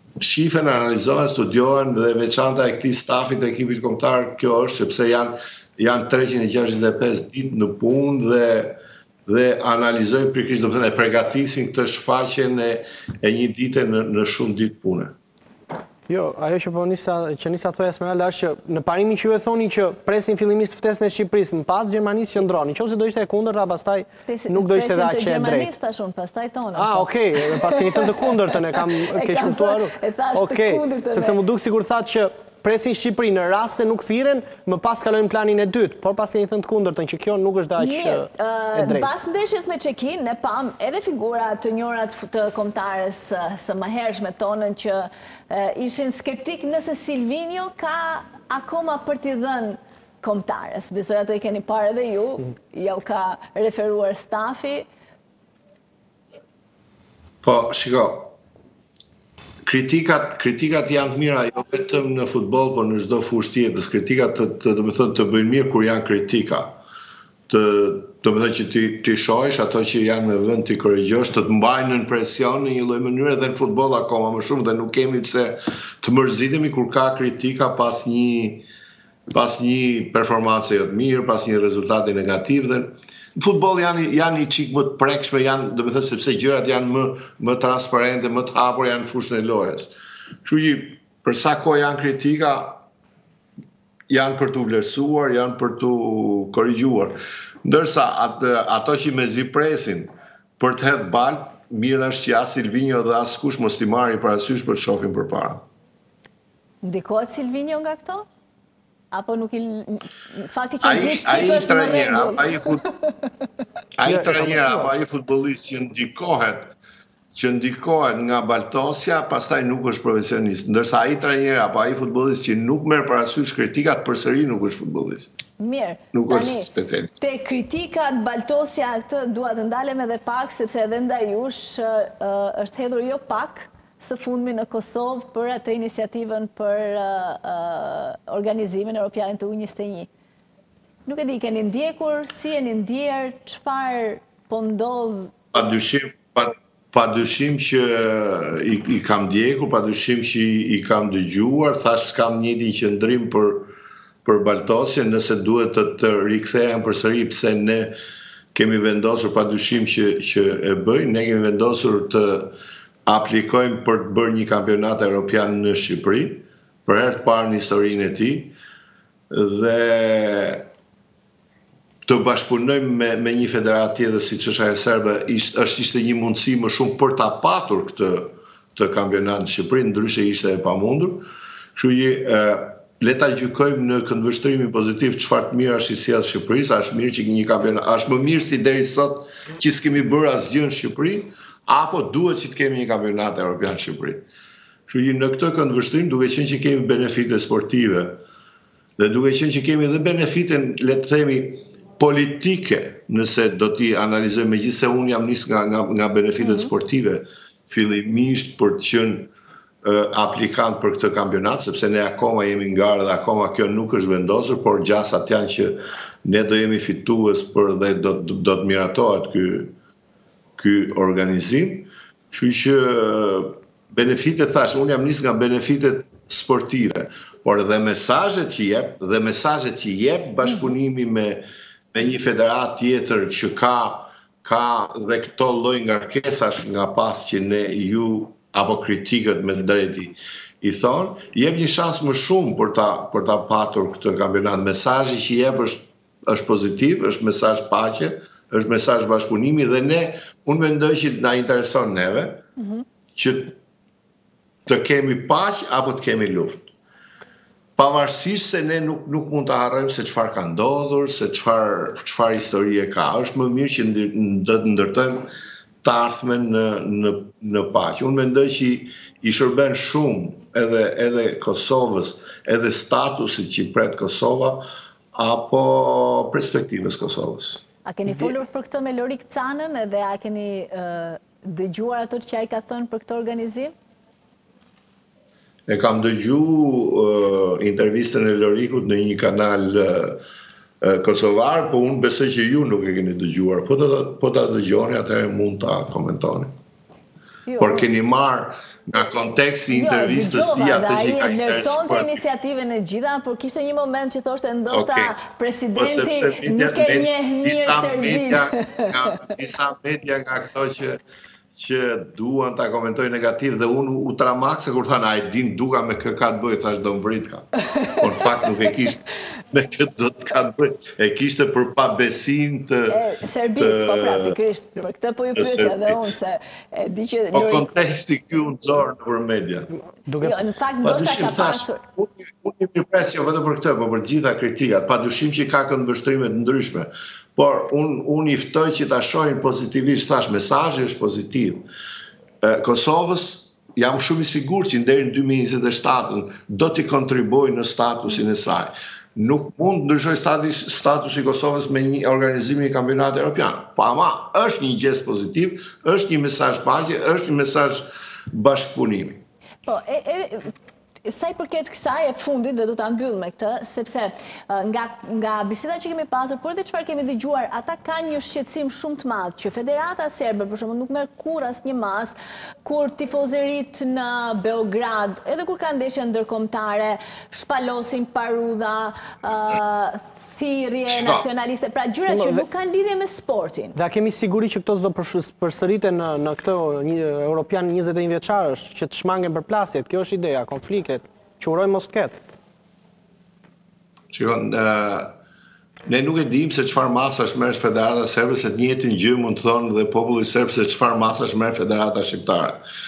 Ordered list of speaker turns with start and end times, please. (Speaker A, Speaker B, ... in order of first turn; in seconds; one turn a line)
Speaker A: 0.2-15.1
Speaker B: 16.1-25.7
Speaker C: 24.2-31.4
Speaker B: 26.7-39.1
Speaker C: 37.8-54.9
Speaker A: 57.4-58.3
Speaker A: 59.6-66.8
Speaker A: 67.5-78.7
Speaker A: 79.3-89.9
Speaker A: 90.4-92.8
Speaker A: 94.1-105.6
Speaker C: 106.8-108.3
Speaker C: 109.1-113.3
Speaker A: 110.8-112.8
Speaker A: 114.0-116.7
Speaker B: 114.0-114.9
Speaker A: 117.3-125.3
Speaker C: 125.6-140.1
Speaker A: 126.1-127.2
Speaker C: 141.1-145.3
Speaker A: 145.5-153.7
Speaker A: 154.2-157.9
Speaker A: 158.5-168.5
Speaker A: 169.3-170.7
Speaker A: 172.1-194.2
Speaker A: 194.9-198.2
Speaker A: 199.0-209.3
Speaker C: 206.4-206.7
Speaker A: 209.8-219.7
Speaker A: 220.6-252.4
Speaker C: 252.6-252.8
Speaker A: 253.1-253.5
Speaker A: 254.7-256.7
Speaker A: 257.8-265.3
Speaker A: 265.8-277.6
Speaker C: 277.8-283.7
Speaker A: 285.7-290.2
Speaker A: 290.8-296.5
Speaker C: 297.5-297.9
Speaker A: 297.6-302.2
Speaker C: 299.7-309.2
Speaker A: 304.7-305.1
Speaker A: 305.8-311.0
Speaker A: 311.5-323.0
Speaker C: 317.7-318.3
Speaker C: 322.9-327.7
Speaker A: 323.6-324.4
Speaker A: 325.4-326.1
Speaker A: 327.3-329.7
Speaker B: 330.0-330.4
Speaker C: 330.2-331.8
Speaker A: 330.8-341.7
Speaker A: 342.4-359.2
Speaker C: 359.6-360.5
Speaker C: 361.0-383.8
Speaker A: 380.9-381.2
Speaker B: 382.1-382.4
Speaker B: 383.8-392.1
Speaker A: 394.1-395.1
Speaker A: 395.9-402.6